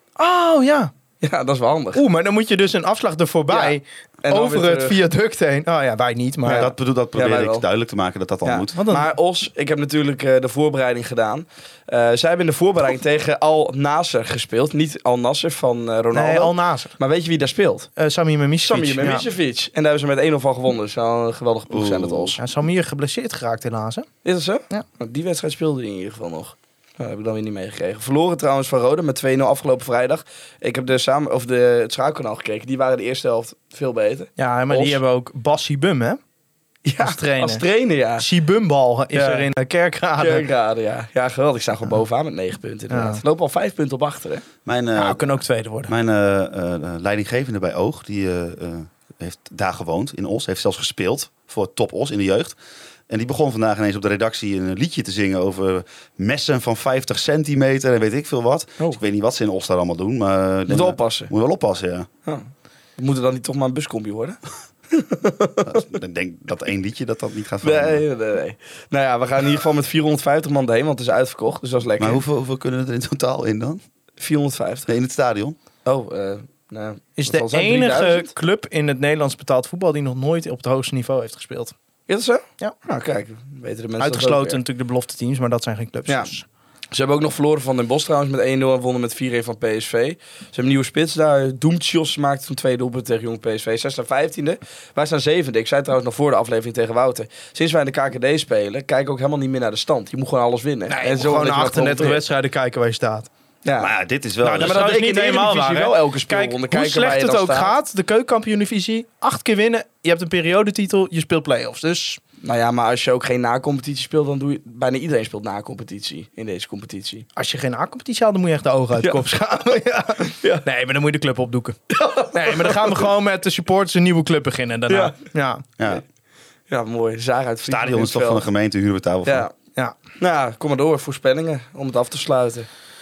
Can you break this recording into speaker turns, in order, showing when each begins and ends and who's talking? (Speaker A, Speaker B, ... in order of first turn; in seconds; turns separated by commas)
Speaker A: 0.2-0.9, Speaker B: 1.2-2.0, Speaker A: 1.9-6.7, Speaker B: 3.5-5.0, Speaker B: 6.5-7.7, Speaker C: 6.5-8.8, Speaker B: 8.4-17.9, Speaker A: 8.7-9.1, Speaker A: 16.1-16.9, Speaker A: 18.0-19.3, Speaker B: 18.7-22.4, Speaker C: 21.7-22.4, Speaker A: 22.4-24.1, Speaker B: 24.2-35.0, Speaker A: 34.4-36.2, Speaker B: 36.9-38.3, Speaker A: 37.0-37.6, Speaker A: 38.2-40.5, Speaker B: 39.1-39.5, Speaker B: 40.2-44.5, Speaker A: 42.9-43.2, Speaker C: 44.7-45.2, Speaker A: 45.0-45.9, Speaker C: 45.9-52.6, Speaker C: 53.1-62.1, Speaker B: 60.7-61.3, Speaker B: 62.2-64.4, Speaker B: 64.9-65.8, Speaker C: 65.7-68.0, Speaker B: 67.6-72.2, Speaker C: 72.0-73.8, Speaker B: 74.2-74.9, Speaker C: 74.9-75.6, Speaker B: 75.8-78.3, Speaker A: 77.2-81.8, Speaker B: 82.1-84.6, Speaker A: 84.0-86.5, Speaker B: 86.9-102.2, Speaker A: 100.9-103.3, Speaker B: 103.6-103.9, Speaker C: 103.8-104.8, Speaker A: 104.4-112.2, Speaker B: 104.5-107.8, Speaker B: 112.4-117.3, Speaker A: 117.4-121.8, Speaker B: 121.9-123.0, Speaker A: 122.3-125.6, Speaker B: 124.9-125.2, Speaker B: 126.7-128.5, Speaker C: 127.7-129.5, Speaker B: 129.2-129.5, Speaker B: 130.2-132.7